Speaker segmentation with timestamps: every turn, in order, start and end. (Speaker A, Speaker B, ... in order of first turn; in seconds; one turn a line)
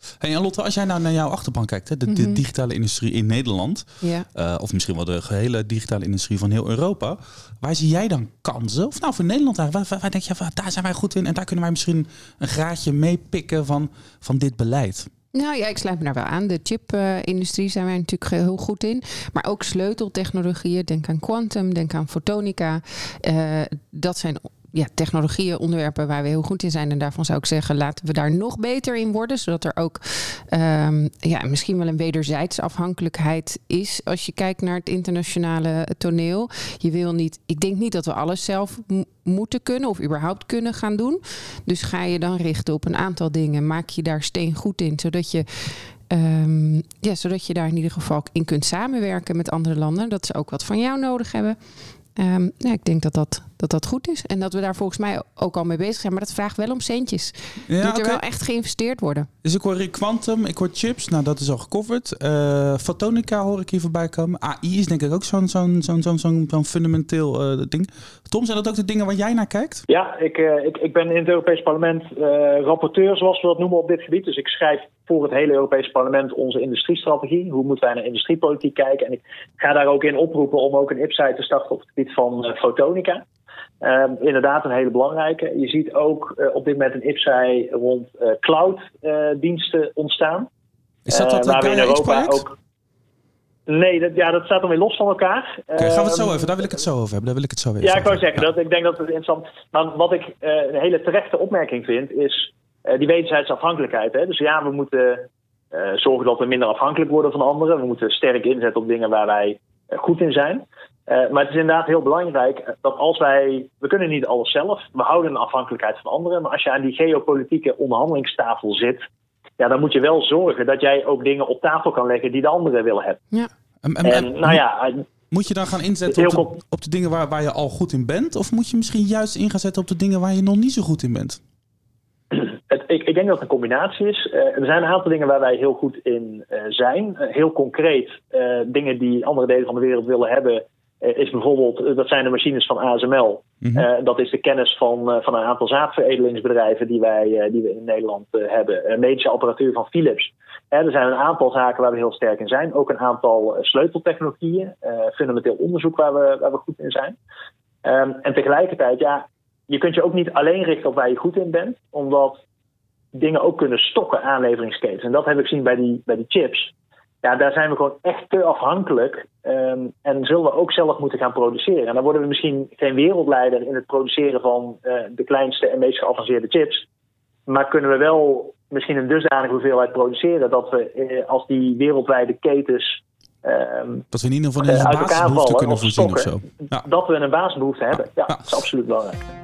Speaker A: 0.2-15.1
Speaker B: 2.1-2.4
Speaker B: 15.3-51.6
Speaker B: 52.1-59.3
Speaker A: 57.7-58.2
Speaker A: 59.4-69.8
Speaker C: 69.9-83.2
Speaker C: 83.8-90.5
Speaker A: 91.1-92.4
Speaker C: 91.1-92.6
Speaker C: 93.7-96.7
Speaker A: 95.8-98.4
Speaker C: 97.8-119.1
Speaker C: 119.6-123.2
Speaker A: 123.8-124.6
Speaker C: 124.0-125.0
Speaker A: 125.3-131.4
Speaker C: 126.1-126.6
Speaker C: 132.3-157.1
Speaker A: 143.6-143.9
Speaker C: 157.8-162.4
Speaker C: 163.1-176.8
Speaker C: 177.5-184.1
Speaker A: 184.1-186.8
Speaker C: 184.6-189.2